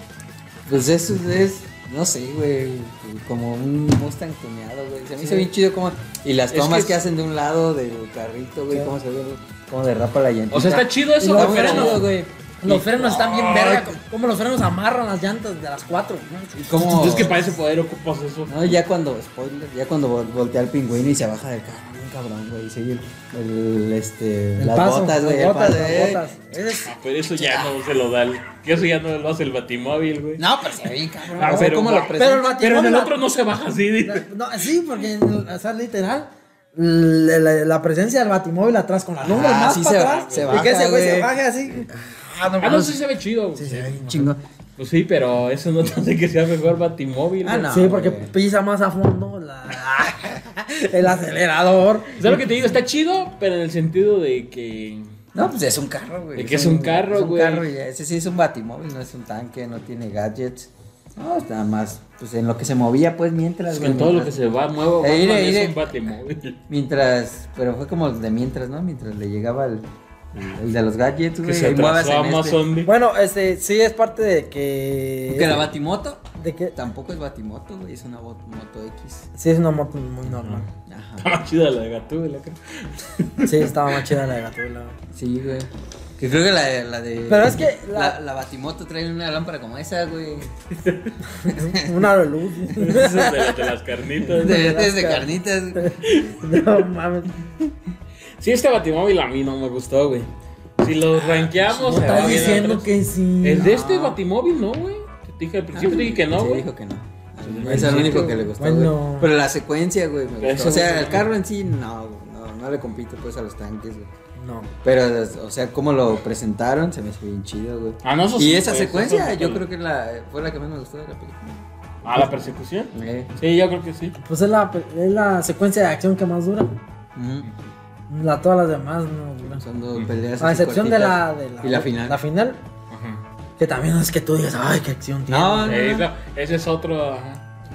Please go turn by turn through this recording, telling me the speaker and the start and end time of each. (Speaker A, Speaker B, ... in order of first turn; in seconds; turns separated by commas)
Speaker A: 0.7-13.9, Speaker B: 5.2-5.5, Speaker C: 6.5-7.0, Speaker C: 10.5-12.1, Speaker B: 11.2-12.1, Speaker B: 12.6-17.5, Speaker A: 16.6-17.4, Speaker C: 16.8-18.7, Speaker A: 18.5-26.2, Speaker B: 24.6-26.9, Speaker C: 26.9-30.4, Speaker A: 30.4-32.5, Speaker C: 31.3-34.3, Speaker B: 31.4-33.2, Speaker B: 34.0-43.0, Speaker A: 39.2-41.3, Speaker C: 39.8-40.7, Speaker C: 42.6-44.0, Speaker B: 43.5-44.3, Speaker A: 44.0-44.4, Speaker C: 44.8-47.7, Speaker A: 47.4-48.3, Speaker B: 47.7-52.5, Speaker C: 52.2-55.0, Speaker A: 55.3-64.3, Speaker C: 56.4-57.7, Speaker C: 63.7-66.6, Speaker A: 65.0-65.9, Speaker A: 66.7-72.6, Speaker C: 71.4-72.9, Speaker B: 72.8-75.7, Speaker A: 75.3-76.2, Speaker B: 76.3-76.7, Speaker A: 76.7-79.2, Speaker B: 79.3-80.7, Speaker C: 80.2-80.6, Speaker A: 80.9-81.3, Speaker C: 81.2-84.1, Speaker B: 83.4-85.0, Speaker A: 85.1-90.5, Speaker B: 87.3-88.2, Speaker C: 90.8-91.1, Speaker B: 91.3-93.5, Speaker A: 91.5-92.0, Speaker C: 92.8-94.7, Speaker B: 94.3-97.4, Speaker A: 94.4-95.8, Speaker C: 96.0-96.6, Speaker C: 98.4-102.9, Speaker A: 101.1-102.7, Speaker B: 101.8-103.8, Speaker C: 103.4-106.7, Speaker A: 103.5-104.2, Speaker A: 105.8-114.1, Speaker C: 107.4-108.5, Speaker B: 107.6-109.3, Speaker C: 110.4-111.3, Speaker B: 114.4-114.7, Speaker A: 114.8-121.6, Speaker C: 118.0-119.6, Speaker C: 122.0-124.2, Speaker A: 122.9-123.3, Speaker B: 124.2-126.7, Speaker A: 127.2-127.5, Speaker B: 128.1-129.6, Speaker A: 129.6-132.2, Speaker B: 130.4-132.6, Speaker C: 132.9-133.2, Speaker B: 133.6-135.9, Speaker A: 135.3-136.1, Speaker C: 135.6-137.4